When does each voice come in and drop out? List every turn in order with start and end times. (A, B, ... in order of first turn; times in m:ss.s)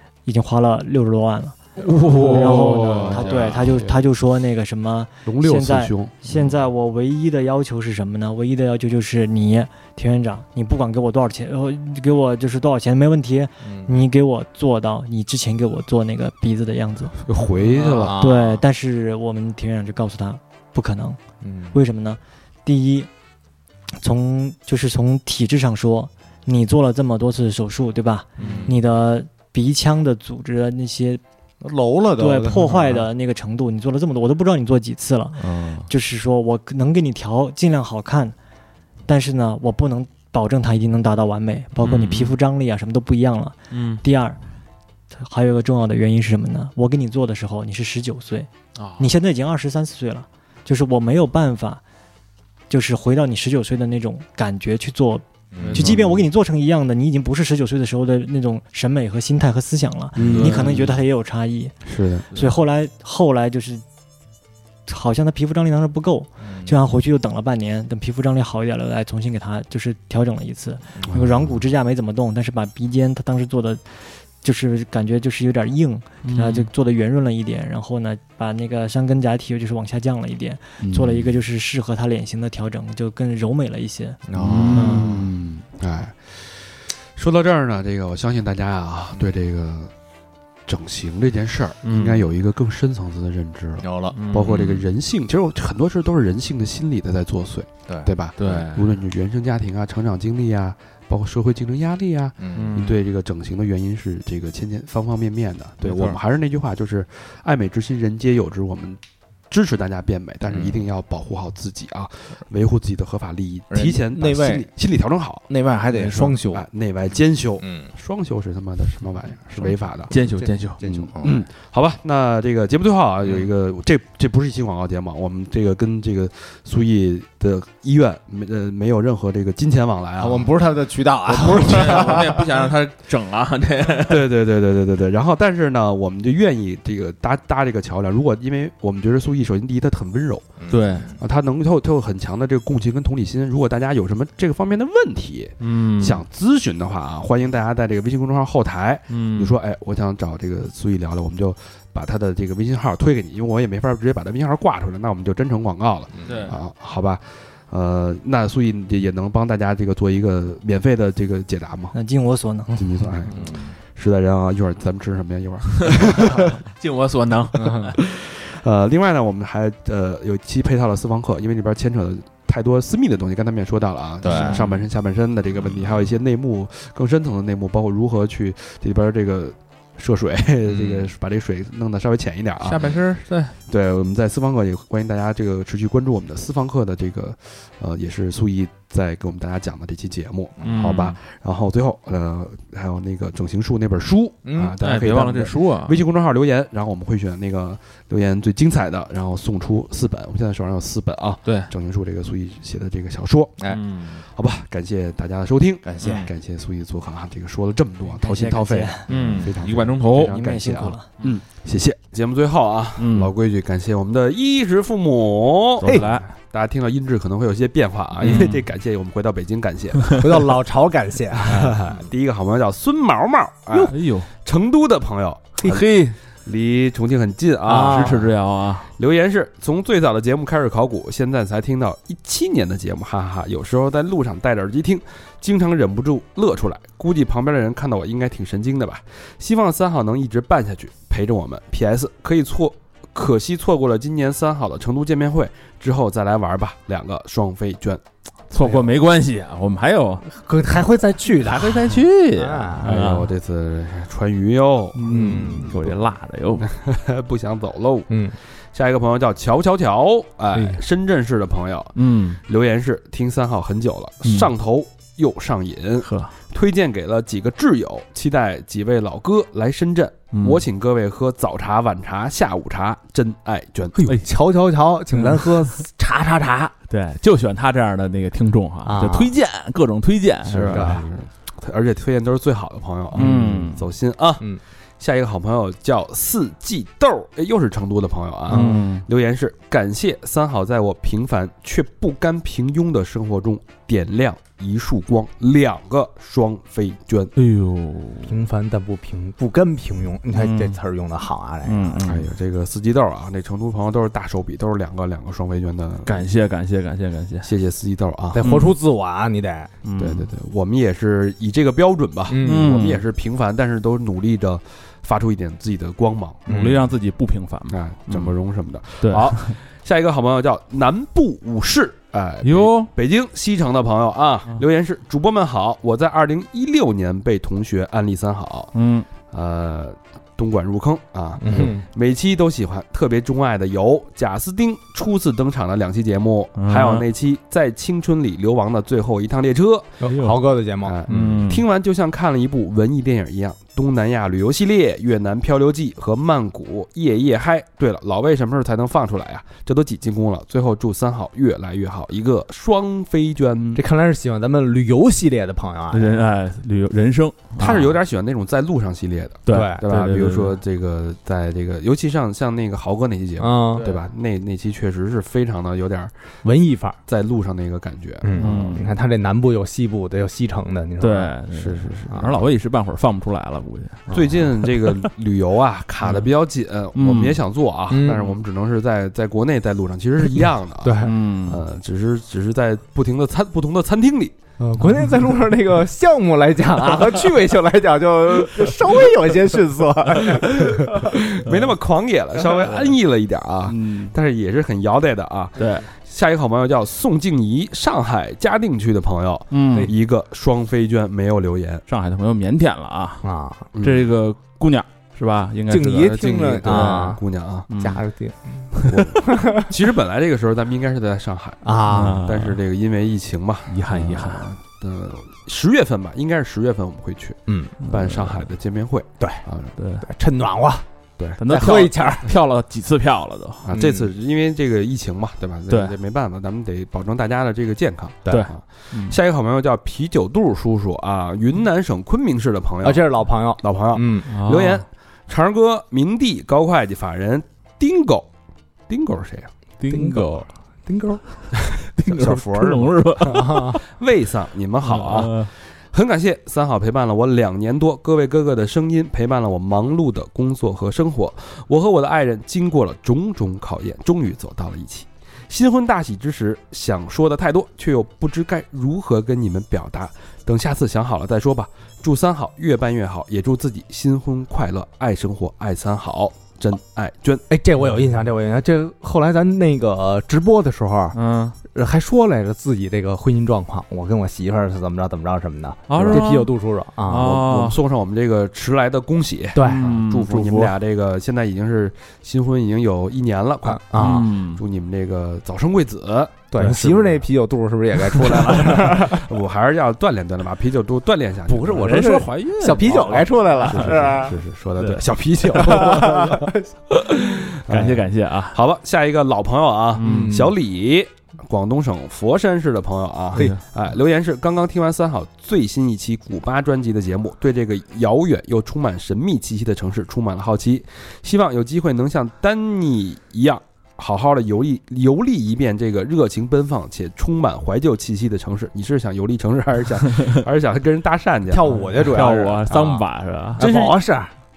0:00.2-0:17.2 A
0:01.8-0:03.7 B
0:02.0-0:04.0 C
0:05.3-0:06.2 C
0:13.6-0:14.0 D
0:17.2-0:18.2 C
0:17.7-0:18.0 B
0:17.7-0:18.6 D
0:18.2-0:21.2 A
0:21.4-0:21.8 D
0:21.7-0:23.1 A
0:24.0-0:31.2 A
0:28.4-0:28.8 D
0:31.6-0:33.1 D
0:32.2-0:38.4 A
0:35.4-0:35.9 D
0:39.1-0:44.4 A
0:41.8-0:42.4 B
0:43.7-0:44.0 B
0:45.1-0:51.8 A
0:48.8-0:49.1 B
0:52.7-1:01.8 A
0:55.5-0:56.0 D
0:55.6-0:56.0 B
1:00.2-1:00.9 C
1:00.2-1:00.9 B
1:00.2-1:00.8 D
1:01.8-1:02.3 C
1:02.3-1:03.8 A
1:04.9-1:24.2 A
1:06.4-1:06.8 D
1:11.0-1:11.2 D
1:11.1-1:11.6 C
1:16.2-1:16.7 B
1:20.8-1:21.3 C
1:24.3-1:25.2 D
1:24.4-1:25.1 B
1:24.6-1:29.9 C
1:24.7-1:25.1 A
1:30.7-1:55.5 C
1:31.8-1:32.3 B
1:33.8-1:34.2 D
1:34.1-1:34.8 B
1:37.9-1:38.6 D
1:38.4-1:39.0 B
1:42.4-1:42.8 D
1:42.5-1:43.0 B
1:45.8-1:46.2 B
1:45.9-1:46.2 D
1:50.5-1:50.8 D
1:53.7-1:54.7 D
1:55.5-1:56.7 D
1:55.9-1:56.4 B
1:56.4-2:00.1 C
1:57.6-1:57.9 D
1:59.5-2:01.4 D
2:00.1-2:00.9 B
2:00.8-2:10.5 C
2:10.2-2:12.5 D
2:11.2-2:12.5 C
2:11.5-2:14.3 B
2:14.1-2:20.5 C
2:20.6-2:21.2 D
2:20.7-2:21.1 B
2:21.2-2:42.0 C
2:25.6-2:26.2 B
2:29.1-2:29.6 B
2:36.1-2:36.6 D
2:36.2-2:36.6 B
2:41.9-2:43.0 A
2:42.8-2:46.6 C
2:43.3-2:43.8 D
2:46.7-2:48.0 B
2:47.6-2:48.0 D
2:48.0-3:03.0 C
2:54.2-2:54.8 D
2:54.2-2:54.8 B
3:00.7-3:01.1 D
3:02.6-3:03.6 B
3:03.7-3:40.2 C
3:10.6-3:11.2 B
3:14.4-3:14.8 D
3:14.8-3:16.0 B
3:21.4-3:21.7 B
3:23.7-3:24.2 B
3:25.8-3:26.3 D
3:28.2-3:29.1 A
3:29.1-3:30.4 B
3:30.2-3:31.1 A
3:33.0-3:33.3 B
3:35.8-3:36.3 B
3:35.8-3:36.2 D
3:38.2-3:38.7 B
3:38.2-3:38.5 D
3:40.2-3:41.8 D
3:41.5-3:45.9 C
3:43.8-3:44.3 B
3:45.6-3:46.2 B
3:46.4-3:48.3 C
3:47.7-3:48.3 D
3:47.7-3:48.9 B
3:49.0-4:08.0 C
4:08.5-4:10.3 B
4:08.6-4:09.0 D
4:10.3-4:13.0 D
4:11.4-4:13.3 B
4:12.8-4:16.0 C
4:15.0-4:16.7 B
4:15.1-4:15.8 D
4:16.6-4:18.1 C
4:18.1-4:18.4 D
4:18.7-4:34.0 C
4:20.5-4:20.8 D
4:22.0-4:22.4 B
4:24.2-4:24.5 B
4:26.0-4:26.3 B
4:30.3-4:30.6 B
4:34.0-4:36.7 D
4:35.2-4:35.7 B
4:36.9-4:41.1 B
4:38.8-4:39.3 D
4:40.5-4:41.1 D
4:40.5-4:44.5 C
4:43.1-4:43.9 B
4:43.1-4:43.7 D
4:45.0-4:57.3 C
4:48.5-4:48.8 D
4:48.5-4:49.0 B
4:57.4-4:58.4 B
4:58.2-5:02.1 D
5:00.4-5:00.8 B
5:01.6-5:02.3 B
5:02.1-5:06.2 C
5:06.0-5:07.5 B
5:07.4-5:08.4 C
5:08.3-5:09.7 D
5:08.4-5:08.7 B
5:09.8-5:10.3 B
5:10.0-5:16.4 C
5:12.3-5:12.8 D
5:12.4-5:13.0 B
5:16.5-5:16.8 D
5:16.5-5:18.3 B
5:17.7-5:28.7 C
5:19.0-5:19.6 B
5:22.4-5:22.9 B
5:28.7-5:29.1 B
5:29.3-5:40.0 C
5:31.4-5:31.8 D
5:36.6-5:37.1 B
5:40.0-5:41.5 D
5:40.1-5:40.4 B
5:40.8-5:53.8 C
5:41.1-5:41.7 B
5:53.8-5:56.1 D
5:55.9-5:58.0 B
5:57.6-6:06.1 C
5:59.5-6:00.6 B
5:59.5-5:59.8 D
6:03.4-6:04.0 D
6:06.4-6:07.0 D
6:07.1-6:08.8 C
6:08.2-6:11.4 D
6:08.4-6:08.9 B
6:11.0-6:15.1 B
6:11.5-6:12.0 C
6:12.1-6:12.4 D
6:14.1-6:14.5 D
6:14.1-6:24.4 C
6:16.0-6:16.3 B
6:16.9-6:17.4 B
6:17.9-6:18.2 D
6:18.0-6:18.4 B
6:20.8-6:21.1 D
6:21.0-6:21.7 B
6:24.6-6:31.1 D
6:30.3-6:41.8 C
6:31.4-6:31.7 B
6:32.4-6:32.9 B
6:33.7-6:34.1 B
6:35.6-6:35.9 B
6:39.5-6:39.9 B
6:41.9-6:43.2 B
6:43.2-6:43.7 D
6:43.8-6:44.1 C
6:43.8-6:48.0 B
6:45.7-6:47.2 D
6:46.1-6:47.7 C
6:47.8-6:49.6 D
6:48.9-6:59.7 C
6:51.6-6:52.2 D
6:51.9-6:52.6 B
6:53.7-6:54.5 B
6:57.8-6:58.5 B
6:59.2-6:59.4 D
6:59.8-7:00.1 B
7:00.0-7:00.8 D
7:01.2-7:01.7 C
7:01.4-7:03.9 B
7:01.5-7:02.3 D
7:03.6-7:18.3 C
7:03.7-7:04.1 D
7:05.7-7:06.0 B
7:08.3-7:09.2 B
7:12.8-7:14.3 D
7:14.3-7:14.9 B
7:18.9-7:19.5 C
7:19.8-7:20.5 B
7:19.9-7:21.2 D
7:21.8-7:47.4 C
7:21.9-7:23.8 B
7:23.3-7:23.8 D
7:24.8-7:25.5 B
7:47.5-7:51.2 D
7:51.1-7:51.6 B
7:51.7-7:57.3 D
7:55.9-7:57.8 B
7:57.2-8:07.3 C
7:59.5-8:00.3 D
7:59.6-8:00.7 B
8:03.6-8:04.3 D
8:04.0-8:04.6 B
8:06.5-8:09.3 D
8:08.4-8:11.9 C
8:11.5-8:14.4 D
8:11.7-8:14.2 B
8:13.7-8:43.0 C
8:14.8-8:15.9 B
8:15.5-8:16.7 D
8:17.5-8:18.6 B
8:20.0-8:20.4 B
8:20.0-8:20.5 D
8:41.5-8:43.0 D
8:42.1-8:43.7 B
8:43.6-8:44.3 D
8:43.6-8:44.0 C